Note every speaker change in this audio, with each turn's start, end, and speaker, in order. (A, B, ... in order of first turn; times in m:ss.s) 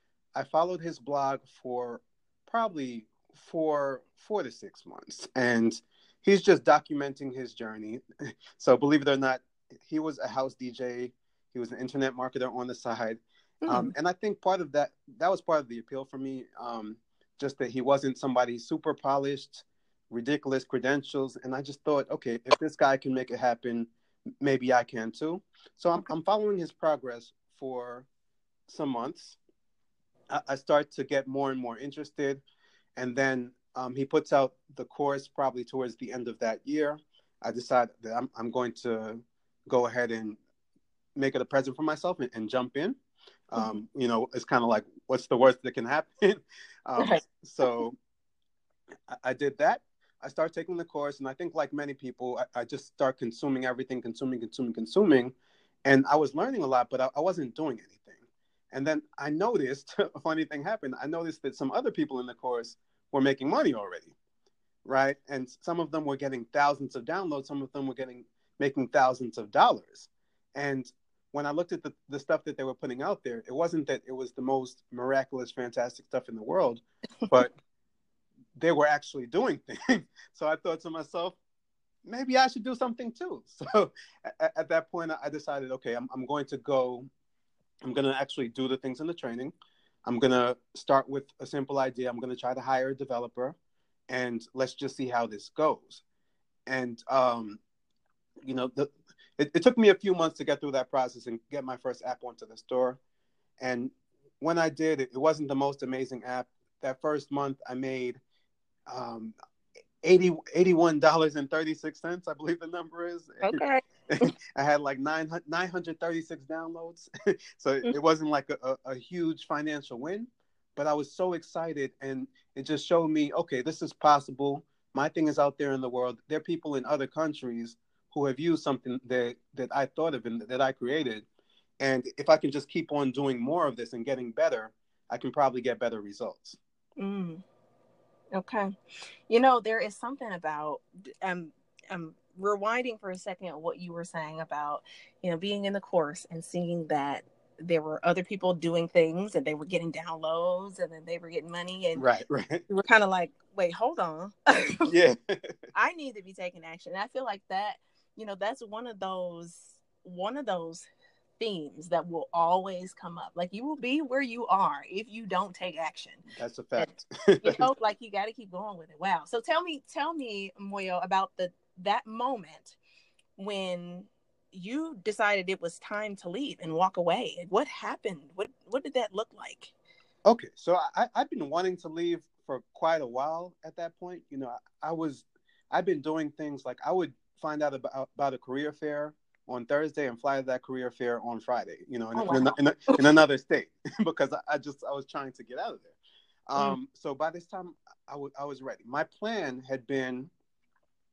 0:00.3-0:08.0 A
0:08.5-0:23.9 A
0:13.6-0:13.9 B
0:24.4-0:28.1 A
0:28.7-0:29.4 A
0:30.3-0:32.4 A
0:33.0-0:40.4 A
0:41.2-0:43.0 A
0:43.5-0:48.0 A
0:47.0-0:47.7 B
0:49.1-0:55.3 A
0:55.8-1:04.1 A
1:04.8-1:17.5 A
1:18.6-1:21.4 A
1:22.0-1:27.1 A
1:27.8-1:29.5 A
1:30.0-1:33.6 A
1:34.1-1:36.0 A
1:36.6-1:37.6 A
1:38.4-1:43.0 A
1:43.6-1:48.2 A
1:48.9-1:49.3 A
1:50.0-2:11.2 A
1:53.4-1:54.3 B
2:11.8-2:16.6 A
2:17.0-2:17.4 B
2:18.3-2:18.7 B
2:19.3-2:32.0 B
2:31.9-2:32.7 A
2:32.7-2:34.9 B
2:34.9-2:35.5 A
2:35.7-2:40.9 B
2:41.4-2:46.2 B
2:46.3-2:47.7 A
2:47.4-2:52.8 B
2:53.4-2:59.7 B
3:00.2-3:16.0 A
3:12.1-3:13.0 B
3:16.5-3:20.3 A